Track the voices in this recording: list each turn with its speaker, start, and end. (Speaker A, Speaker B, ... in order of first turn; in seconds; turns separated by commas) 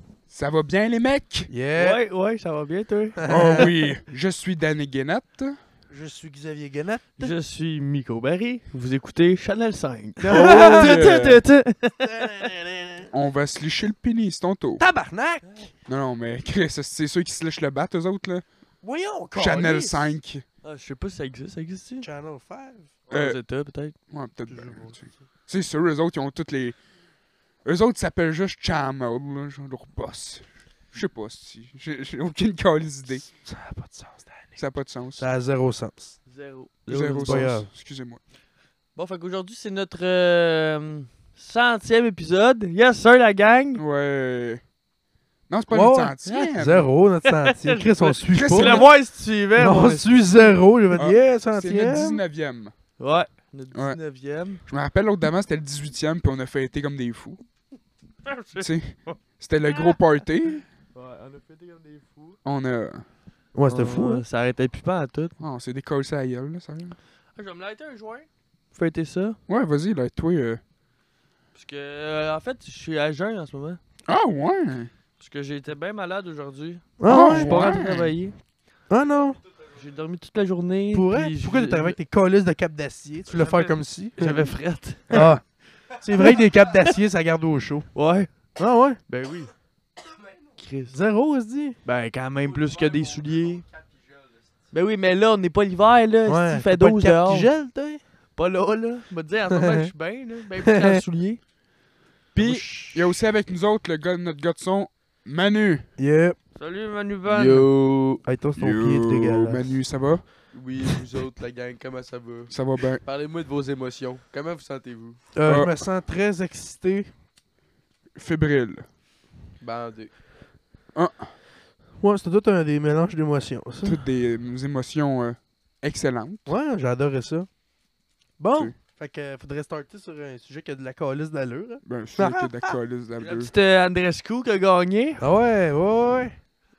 Speaker A: 0.3-1.5, Speaker B: 1.5-2.0, Speaker C: 1.8-3.2, Speaker B: 3.2-3.7, Speaker A: 3.3-5.6, Speaker B: 5.9-7.3, Speaker C: 7.2-12.5, Speaker B: 10.3-11.1, Speaker A: 10.5-11.4, Speaker B: 12.0-13.1, Speaker A: 13.1-14.8, Speaker B: 14.8-15.7, Speaker A: 15.9-18.4, Speaker B: 18.8-19.8, Speaker A: 19.4-20.4, Speaker C: 19.5-20.1, Speaker C: 20.6-22.1, Speaker B: 22.0-22.9, Speaker C: 23.1-23.9, Speaker A: 23.1-23.4, Speaker A: 24.1-26.8, Speaker B: 24.5-25.1, Speaker A: 27.6-33.3, Speaker B: 33.4-34.6, Speaker A: 34.6-35.2, Speaker B: 35.2-36.2, Speaker C: 36.3-37.5, Speaker A: 36.9-38.2, Speaker B: 37.2-37.7, Speaker C: 39.0-43.8, Speaker A: 43.8-44.6, Speaker A: 45.5-46.9, Speaker B: 45.7-48.9, Speaker C: 46.2-46.5, Speaker C: 47.2-50.1, Speaker A: 48.3-48.9, Speaker B: 49.6-52.2, Speaker A: 51.0-52.7, Speaker C: 53.0-54.6, Speaker A: 54.7-57.4, Speaker C: 58.2-60.0, Speaker A: 58.6-60.6, Speaker C: 61.0-62.4, Speaker A: 62.5-63.0, Speaker B: 63.5-64.2, Speaker C: 63.7-65.3, Speaker A: 65.4-67.0, Speaker C: 67.4-69.4, Speaker A: 69.5-70.6, Speaker C: 71.5-73.8, Speaker A: 74.1-74.9, Speaker C: 75.2-78.4, Speaker B: 77.0-77.8, Speaker A: 77.1-78.1, Speaker B: 78.9-79.4, Speaker C: 79.8-82.0, Speaker B: 80.9-84.5, Speaker C: 83.3-85.3, Speaker B: 85.1-87.9, Speaker C: 87.9-88.3, Speaker B: 88.6-89.0, Speaker C: 89.1-89.5, Speaker C: 90.6-91.0, Speaker B: 90.9-91.8, Speaker C: 91.8-93.7, Speaker C: 94.7-97.5, Speaker B: 96.3-98.0, Speaker C: 98.4-101.4, Speaker B: 99.5-99.9, Speaker B: 100.6-101.0, Speaker C: 102.3-102.6, Speaker B: 102.4-103.2, Speaker A: 102.9-105.9, Speaker B: 106.0-106.4, Speaker C: 106.6-107.7, Speaker D: 107.3-108.2, Speaker B: 108.2-109.8, Speaker A: 108.6-110.2, Speaker D: 110.5-115.2, Speaker A: 112.5-113.0, Speaker B: 115.3-117.1, Speaker A: 115.5-115.7, Speaker A: 118.2-118.9, Speaker D: 119.6-120.1, Speaker A: 121.0-121.3, Speaker B: 122.0-124.0, Speaker A: 123.8-126.5, Speaker B: 126.5-127.5, Speaker B: 128.4-132.7, Speaker A: 131.9-133.5, Speaker C: 133.2-135.3, Speaker B: 135.2-136.3